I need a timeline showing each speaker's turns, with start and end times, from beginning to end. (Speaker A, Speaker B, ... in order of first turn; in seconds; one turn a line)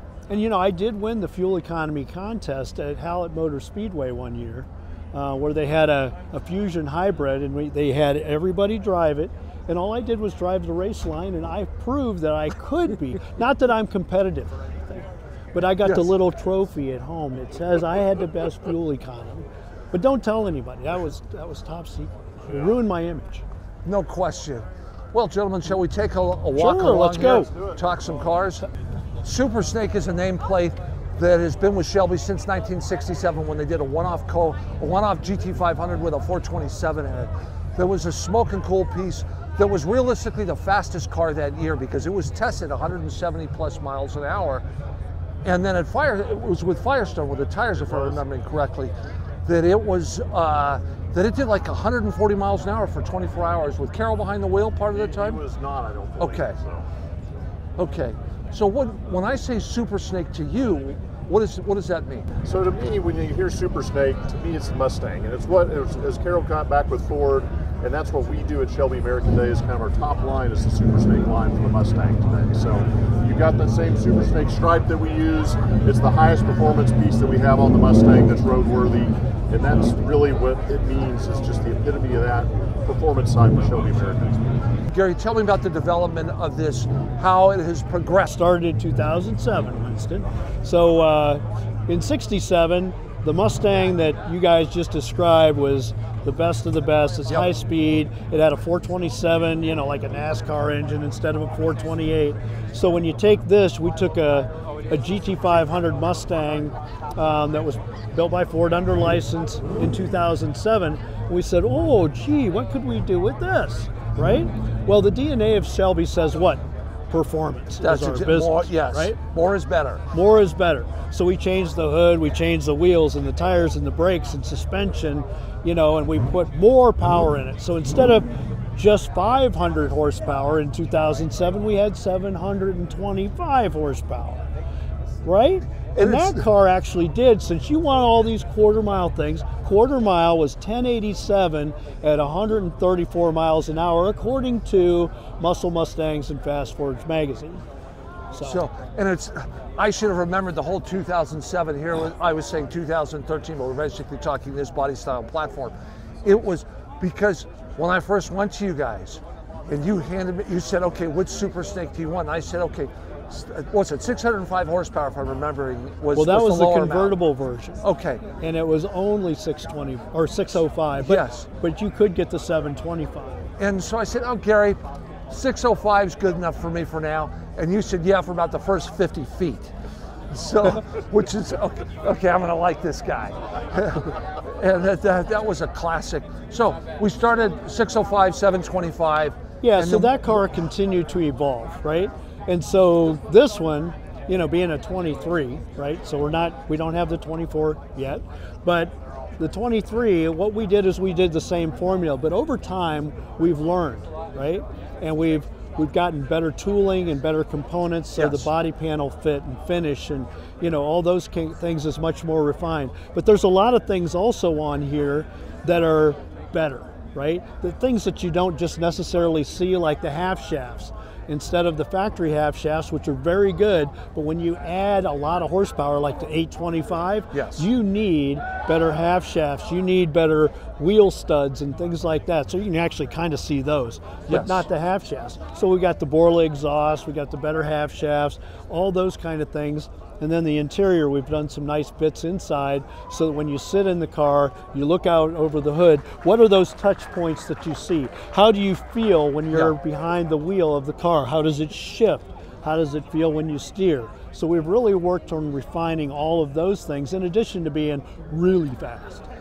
Speaker A: 0.3-23.4
Speaker B: 23.8-28.6
Speaker A: 26.5-27.5
Speaker C: 27.2-28.1
Speaker B: 29.2-44.6
Speaker B: 45.4-48.9
Speaker C: 47.8-48.2
Speaker B: 49.5-55.4
Speaker C: 54.9-56.9
Speaker B: 56.2-56.5
Speaker B: 57.8-62.3
Speaker C: 62.4-84.6
Speaker B: 84.9-88.4
Speaker A: 88.3-119.2
Speaker B: 117.8-120.0
Speaker A: 120.1-134.4
Speaker A: 135.2-147.6
Speaker B: 136.0-136.4
Speaker A: 148.3-148.6
Speaker B: 148.4-167.2
Speaker A: 166.1-167.8
Speaker B: 167.8-168.2
Speaker A: 168.4-173.4
Speaker B: 171.0-171.5
Speaker B: 173.6-179.7
Speaker B: 180.3-190.1
Speaker A: 189.6-259.2
Speaker B: 208.2-208.5
Speaker B: 227.3-227.7
Speaker B: 234.3-234.7